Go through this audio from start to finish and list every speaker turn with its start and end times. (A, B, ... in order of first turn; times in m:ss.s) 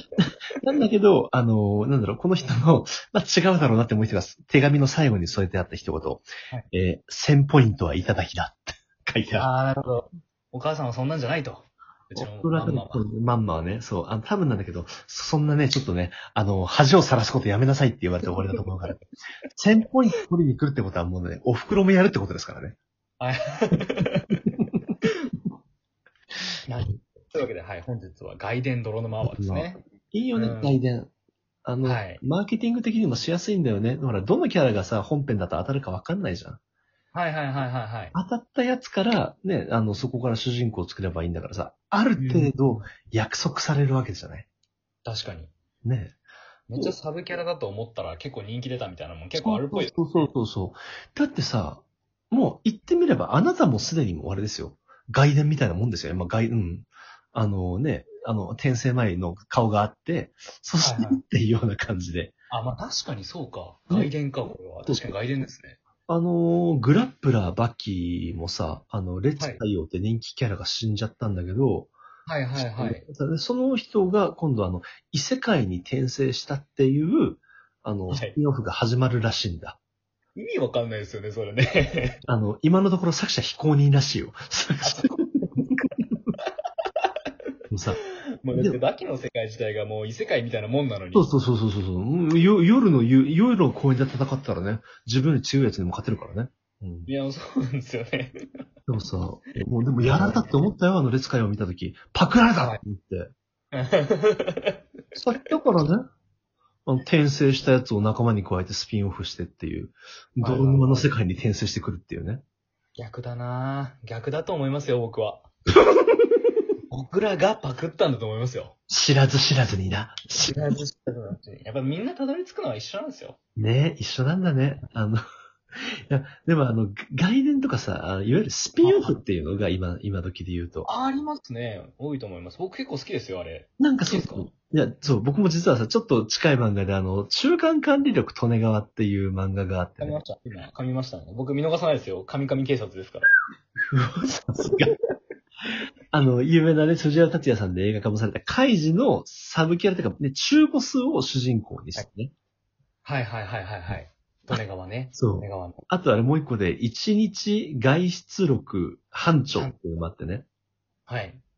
0:00.2-0:09.5 A
0:09.3-0:13.0 B
0:12.2-0:19.0 A
0:18.3-0:18.6 B
0:19.6-0:22.8 A
0:23.2-0:24.4 B
0:26.6-0:29.8 B
0:29.2-0:31.1 A
0:30.3-0:30.8 B
0:31.6-0:36.6 A
0:31.8-0:32.2 B
0:37.1-0:38.2 B
0:38.1-0:44.5 A
0:42.2-0:42.6 B
0:45.0-0:45.5 B
0:45.8-0:46.2 A
0:46.7-0:50.3 B
0:49.4-1:02.3 A
1:00.8-1:01.2 B
1:02.5-1:05.8 B
1:04.9-1:05.1 A
1:06.1-1:11.9 A
1:09.4-1:09.6 B
1:12.2-1:13.1 B
1:12.5-1:19.8 A
1:18.1-1:18.4 B
1:20.3-1:22.2 B
1:22.3-1:25.9 A
1:24.8-1:25.6 B
1:27.7-1:28.0 A
1:28.0-1:31.3 B
1:28.5-1:28.8 A
1:31.1-1:37.1 A
1:37.1-1:38.4 B
1:38.9-1:43.3 A
1:40.0-1:40.5 B
1:43.7-1:44.8 B
1:45.1-1:46.1 A
1:46.8-1:52.4 A
1:50.4-1:51.1 B
1:53.0-1:55.5 B
1:56.9-1:58.8 B
1:58.9-2:00.7 A
2:00.4-2:03.4 B
2:03.6-2:05.2 A
2:06.1-2:10.9 A
2:08.8-2:09.2 B
2:10.8-2:14.5 B
2:13.8-2:20.2 A
2:20.0-2:23.3 B
2:23.8-2:24.9 A
2:26.1-2:32.3 A
2:33.0-2:35.8 B
2:35.1-2:40.4 A
2:41.1-2:41.4 B